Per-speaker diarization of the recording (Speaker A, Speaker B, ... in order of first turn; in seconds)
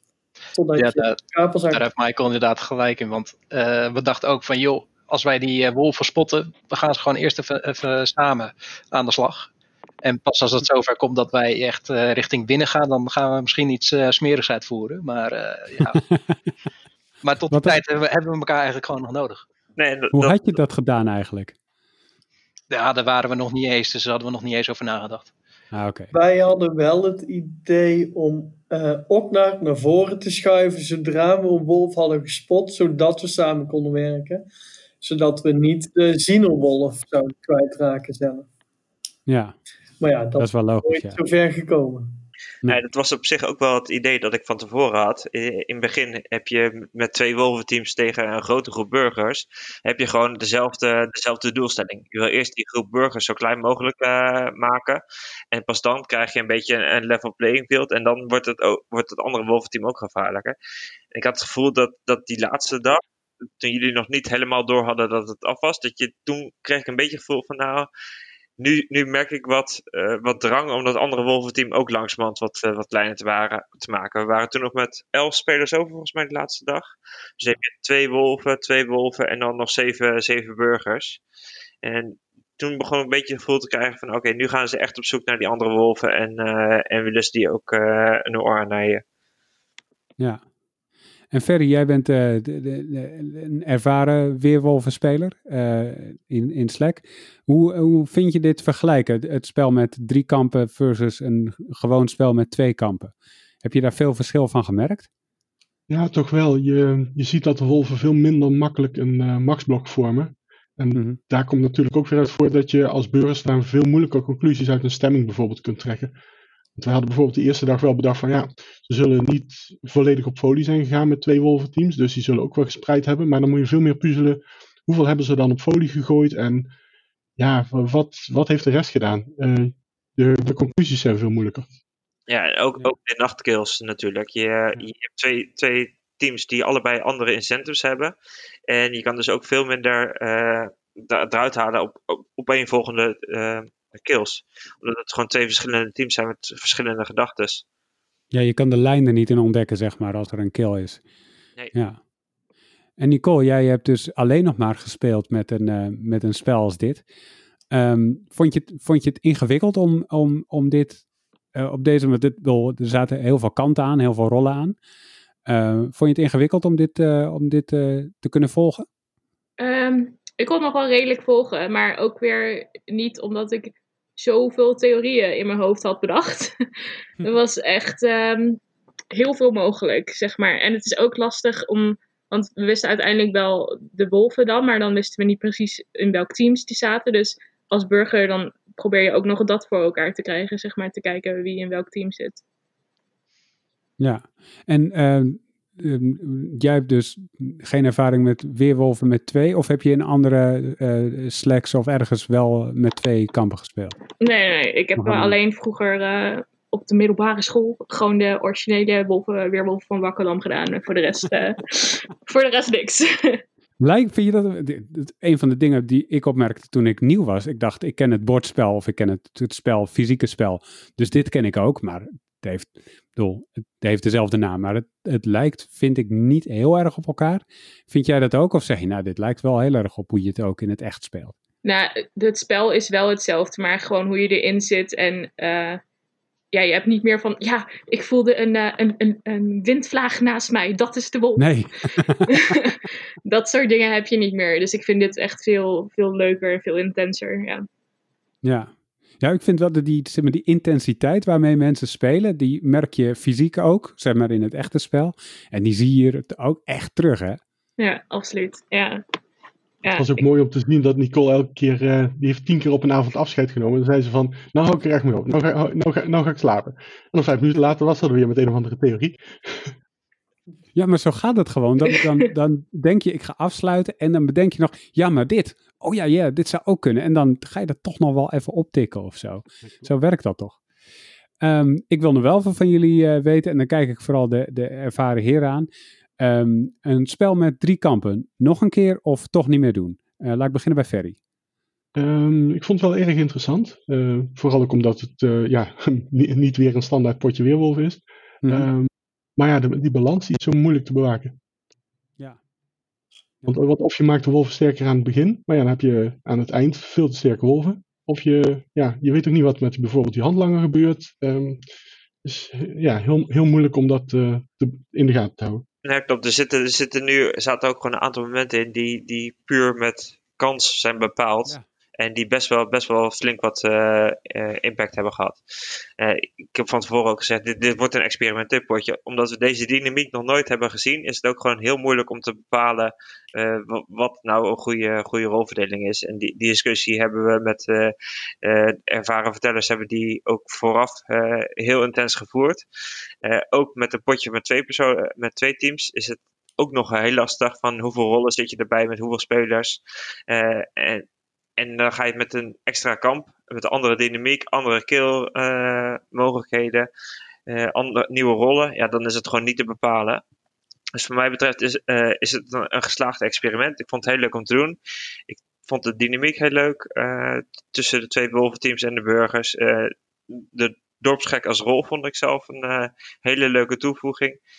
Speaker A: 0.5-1.8, 26.1-34.4, 35.0-38.5, 40.0-42.1
Speaker B: 0.8-9.5, 10.0-16.0, 17.2-19.4, 22.7-25.3
Speaker C: 15.9-16.4, 17.5-17.8, 20.1-21.5, 25.7-26.1, 39.3-39.5, 40.4-41.2, 91.3-105.1, 148.3-151.0, 153.0-157.0, 157.7-161.0, 161.5-164.8, 165.5-168.8, 194.0-203.9, 205.0-205.3, 213.8-231.3, 241.4-242.5, 248.4-257.4, 270.7-280.6, 281.4-285.7, 286.2-291.1
Speaker D: 19.8-20.6, 42.6-60.5, 61.1-63.0, 63.6-67.9, 68.6-81.2, 81.8-89.0, 132.3-138.1, 138.7-147.6, 315.8-325.4, 326.0-342.6, 343.2-351.0, 351.6-356.9, 357.5-360.2, 360.9-364.8, 365.3-374.4
Speaker E: 105.9-116.1, 116.8-126.7, 127.4-131.7, 259.9-269.7, 291.9-301.4, 303.5-311.6, 312.2-315.6
Speaker F: 169.6-176.5, 177.2-178.6, 179.1-192.4, 204.2-213.4, 231.6-235.8, 236.5-241.5, 242.3-247.7, 257.8-259.0, 259.8-260.2